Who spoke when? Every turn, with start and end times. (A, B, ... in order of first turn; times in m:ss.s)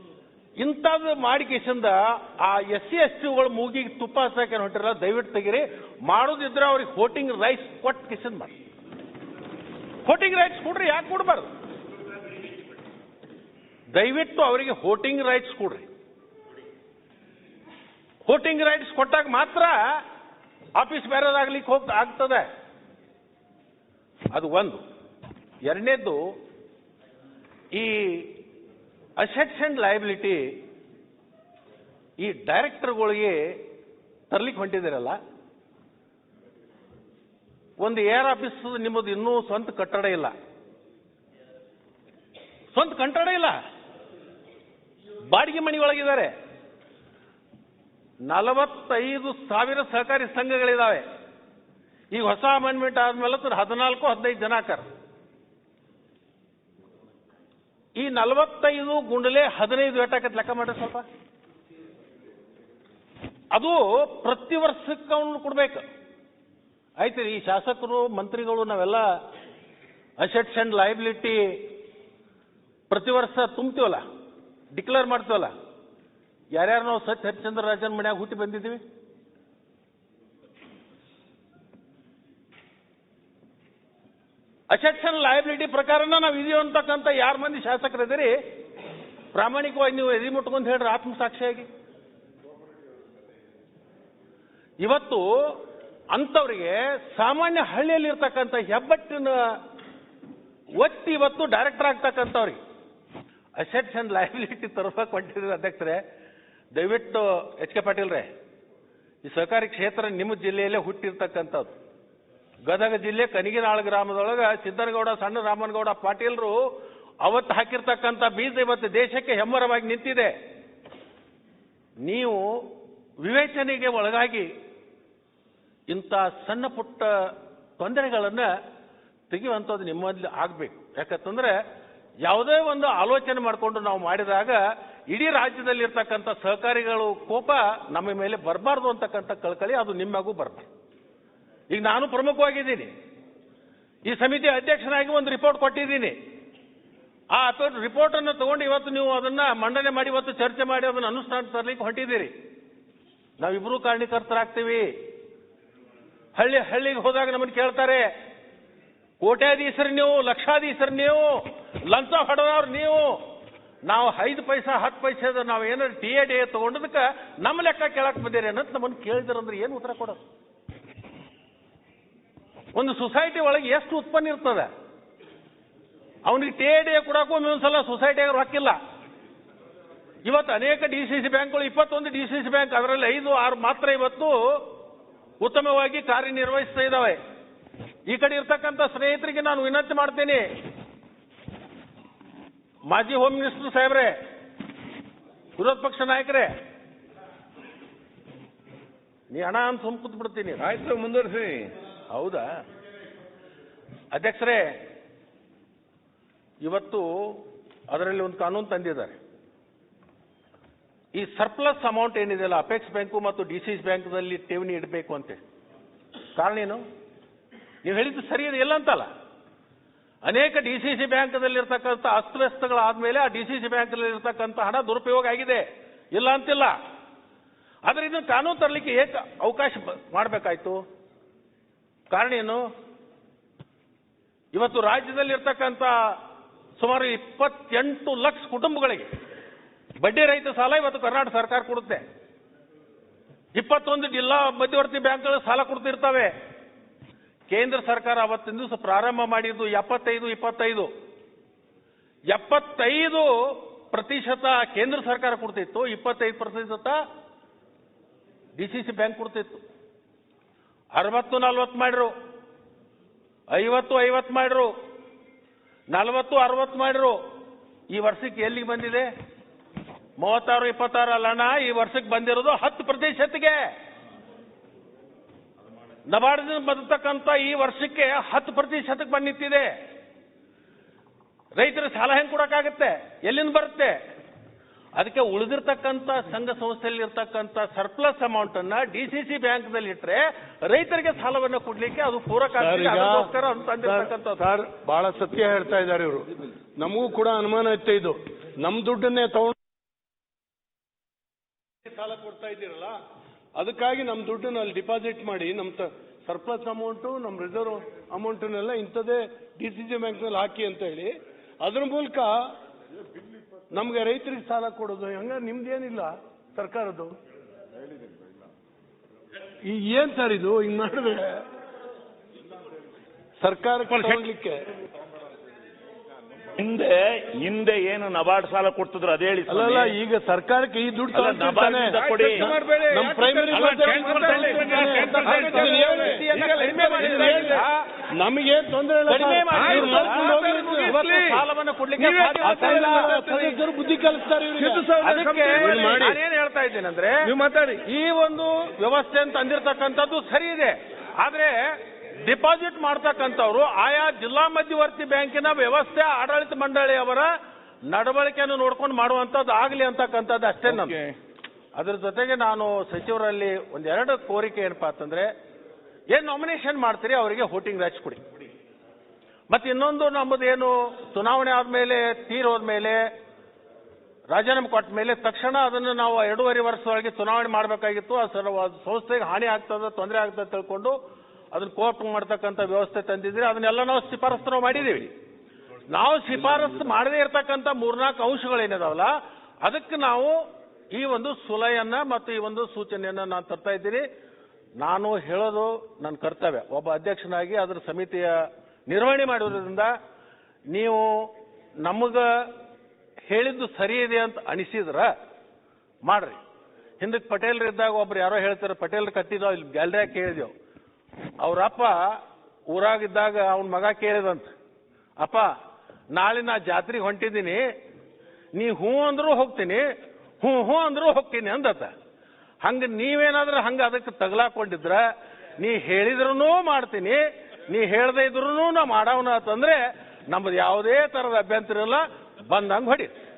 0:00.6-0:08.5 A
0:10.0-0:11.5 A
0:13.9-0:15.8 A
0:18.2-0:20.0 A
0:20.8-0:22.5 A
0:24.3-0:24.8 A
0:25.6-0:26.2 A
0:27.7-0:28.4 A
0:29.2-0:30.5 A
0:32.2-0:33.6 A
0:34.3-0:35.2 A
0:37.8-0:40.3 A
0:42.7-0:43.6 A
0:45.3-0:46.3 A
0:48.3-0:51.0 A
0:52.1-0:54.8 A
0:58.0-1:01.0 A
1:03.5-1:05.8 A
1:07.0-1:09.1 A
1:10.2-1:11.6 A
1:12.9-1:14.0 A
1:14.7-1:15.5 A
1:16.5-1:18.8 A
1:24.7-1:28.3 A
1:29.3-1:31.7 A
1:34.8-1:39.6 A
1:40.8-1:42.6 A
1:43.6-1:46.0 A
1:46.7-1:48.3 A
1:49.2-1:51.7 A
1:52.6-1:56.6 A
1:57.2-2:00.3 A
2:02.0-2:02.4 A
2:03.2-2:04.5 A
2:05.9-2:08.5 A
2:09.3-2:11.6 A
2:12.2-2:14.6 A
2:15.1-2:20.7 A
2:21.7-2:22.9 A
2:24.0-2:26.2 A
2:27.3-2:32.3 A
2:33.4-2:34.9 A
2:36.4-2:38.1 A
2:39.2-2:43.2 A
2:43.8-2:50.2 A
2:52.7-2:54.7 A
2:56.2-2:58.8 A
3:00.2-3:04.7 A
3:05.4-3:07.2 A
3:08.1-3:10.5 A
3:12.9-3:14.1 A
3:15.6-3:16.5 A
3:19.3-3:20.6 A
3:20.6-3:21.7 B
3:22.1-3:22.5 A
3:24.1-3:24.7 A
3:26.6-3:29.2 A
3:31.1-3:35.4 A
3:36.3-3:36.8 A
3:37.8-3:39.1 A
3:40.2-3:46.7 A
3:47.8-3:50.8 A
3:52.1-3:52.6 A
3:54.5-3:56.2 A
3:56.8-3:59.1 A
4:00.0-4:02.0 A
4:03.6-4:06.3 A
4:07.5-4:10.9 A
4:12.3-4:17.0 A
4:18.6-4:19.6 A
4:20.9-4:22.1 A
4:23.5-4:24.7 A
4:25.9-4:27.2 A
4:27.9-4:29.1 A
4:30.2-4:33.7 A
4:36.1-4:39.7 A
4:41.6-4:44.0 A
4:45.0-4:54.4 A
4:52.6-4:53.3 C
4:53.8-4:56.3 C
4:56.8-4:59.5 C
5:01.8-5:03.0 C
5:03.6-5:12.4 C
5:13.7-5:17.1 C
5:19.6-5:21.4 C
5:23.4-5:24.6 C
5:26.6-5:29.9 D
5:29.5-5:37.6 C
5:31.1-5:32.5 D
5:31.9-5:37.6 B
5:33.5-5:37.8 A
5:38.1-5:41.0 C
5:39.1-5:43.6 A
5:39.5-5:41.4 B
5:42.0-5:43.2 B
5:42.2-5:44.8 C
5:44.6-5:46.0 B
5:45.0-5:47.2 A
5:45.6-5:46.2 C
5:47.2-5:47.8 B
5:47.8-5:57.3 A
5:57.9-6:01.0 A
6:00.6-6:01.1 B
6:01.8-6:05.3 A
6:06.1-6:08.2 A
6:09.5-6:13.0 A
6:14.3-6:21.0 A
6:21.5-6:25.1 A
6:25.9-6:30.4 A
6:30.9-6:34.0 A
6:34.8-6:39.9 A
6:40.7-6:41.3 A
6:41.8-6:42.3 A
6:43.3-6:45.1 A
6:46.0-6:46.4 A
6:47.0-6:50.5 A
6:51.4-6:52.2 A
6:52.7-6:54.5 A
6:55.2-6:55.5 A
6:56.1-6:57.6 A
6:58.5-6:59.8 A
7:00.4-7:01.9 A
7:02.6-7:05.1 A
7:05.6-7:09.8 A
7:10.3-7:13.1 A